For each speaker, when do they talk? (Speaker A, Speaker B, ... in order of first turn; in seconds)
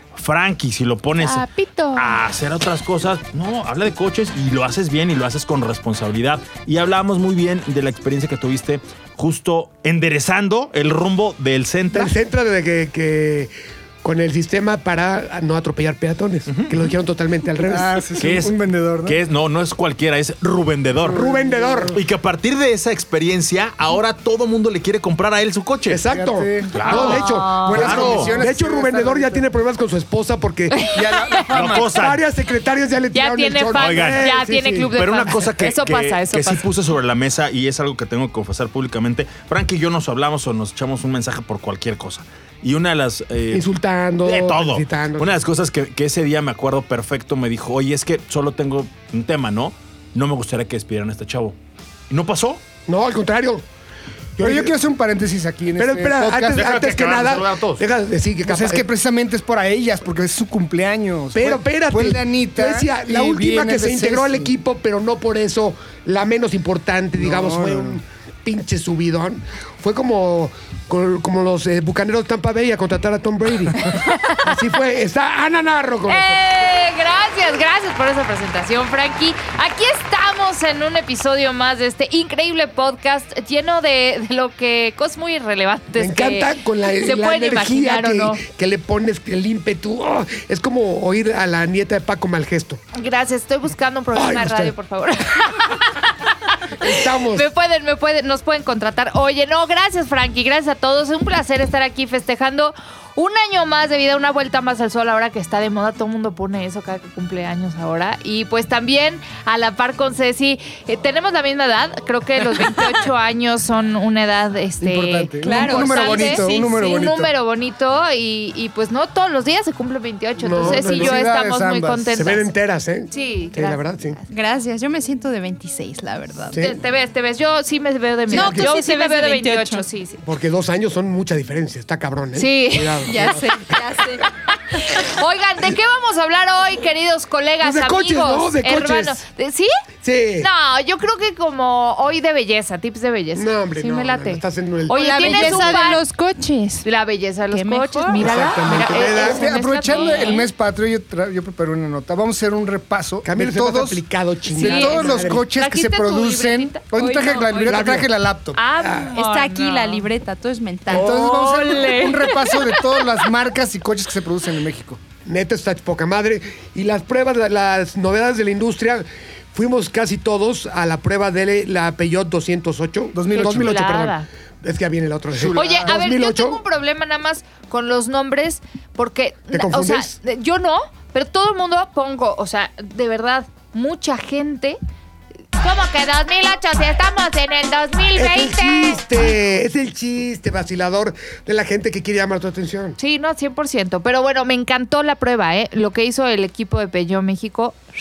Speaker A: 0.1-12.1, 16.5-16.8, 18.2-21.2, 21.9-26.0, 26.7-28.4, 31.5-32.2, 33.8-34.3, 35.0-43.7, 44.2-51.6, 52.1-52.6, 56.5-57.8
Speaker B: 1.2-2.2, 26.9-27.9, 30.7-31.4, 33.1-36.7, 73.9-74.5, 76.1-88.4, 92.9-96.1, 96.8-122.5, 123.1-124.3, 126.6-130.2, 132.3-133.3, 134.7-139.7, 140.4-146.1, 146.8-150.5, 154.5-157.4, 158.6-160.1, 160.9-162.6, 173.3-174.3, 175.6-184.8, 185.6-189.3, 193.0-197.8
Speaker C: 11.9-18.0, 21.1-22.0, 25.9-30.9, 31.9-35.0, 43.5-45.4, 52.9-53.7, 54.4-54.7, 55.8-58.9, 61.3-76.4, 86.0-92.8, 94.1-94.7, 96.8-97.5, 120.4-121.2, 122.1-124.2, 126.5-126.8, 128.3-128.7, 130.2-133.7, 137.6-139.2, 140.0-140.5, 143.3-145.8, 148.1-149.5, 153.2-155.5, 157.6-158.1, 158.8-159.1, 165.2-176.6, 179.5-180.2, 188.2-193.0
Speaker D: 17.7-19.2, 21.0-22.0, 26.1-29.4, 30.9-31.9, 54.4-56.6, 58.5-64.5, 67.2-68.0, 114.8-117.3, 120.6-122.2, 148.8-154.0, 154.5-158.6, 160.9-165.0, 173.1-173.8, 175.3-175.9
Speaker E: 115.4-116.5, 124.3-126.6, 128.3-129.9, 133.0-134.3, 144.9-146.9, 147.5-148.7, 149.8-150.3, 156.9-157.9, 159.1-162.3